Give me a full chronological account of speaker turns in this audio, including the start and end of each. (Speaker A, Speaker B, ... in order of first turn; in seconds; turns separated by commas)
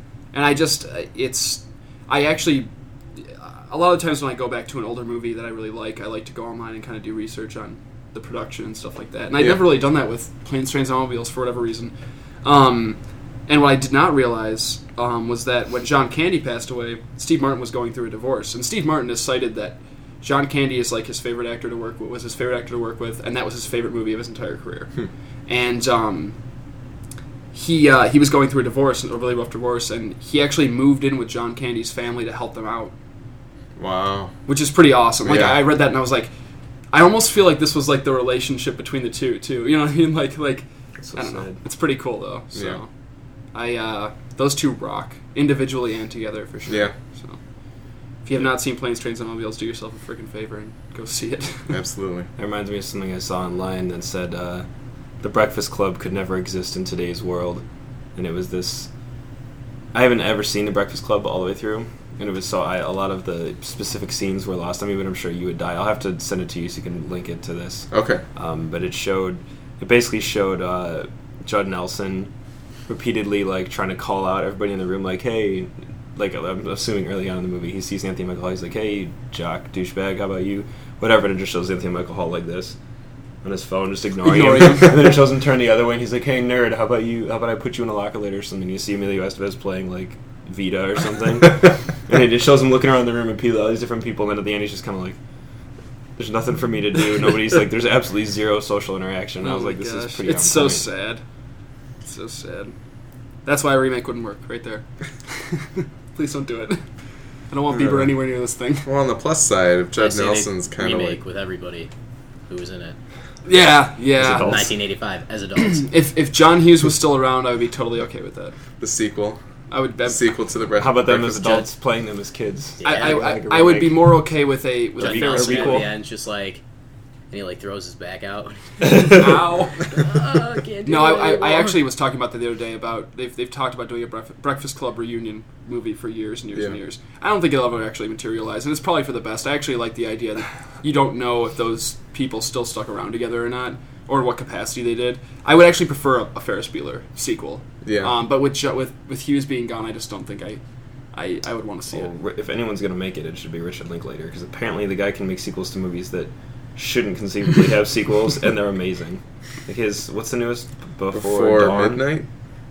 Speaker A: 0.3-26.4, Speaker A: 27.5-32.9, Speaker B: 33.8-34.3, Speaker A: 34.5-36.3, Speaker B: 35.2-35.7, Speaker A: 36.9-42.9, Speaker C: 41.0-41.6, Speaker B: 42.5-42.8, Speaker A: 43.5-47.4, Speaker B: 46.7-46.9, Speaker A: 48.2-51.8, Speaker B: 51.7-52.3, Speaker C: 52.4-54.7, Speaker C: 55.2-58.9, Speaker C: 59.9-72.3, Speaker B: 67.9-68.2, Speaker C: 72.9-82.8, Speaker C: 83.4-95.2, Speaker A: 84.2-85.2, Speaker C: 96.2-100.9, Speaker A: 99.4-101.2, Speaker A: 102.0-102.8, Speaker A: 103.5-106.8, Speaker A: 107.5-108.9, Speaker B: 107.7-108.1, Speaker B: 108.8-111.2, Speaker D: 110.0-111.9, Speaker D: 112.5-113.0, Speaker A: 113.5-114.7, Speaker C: 114.2-114.7, Speaker D: 114.2-115.9, Speaker A: 115.6-118.5, Speaker B: 118.8-119.4, Speaker A: 119.7-120.3, Speaker B: 120.1-121.7, Speaker C: 120.8-124.2, Speaker D: 122.8-123.4, Speaker A: 122.8-125.9, Speaker C: 125.0-125.9, Speaker D: 125.0-126.6, Speaker D: 127.3-131.8, Speaker A: 129.1-130.0, Speaker A: 130.9-150.6, Speaker B: 147.8-148.2, Speaker A: 151.1-152.1, Speaker C: 151.9-162.1, Speaker B: 161.1-162.3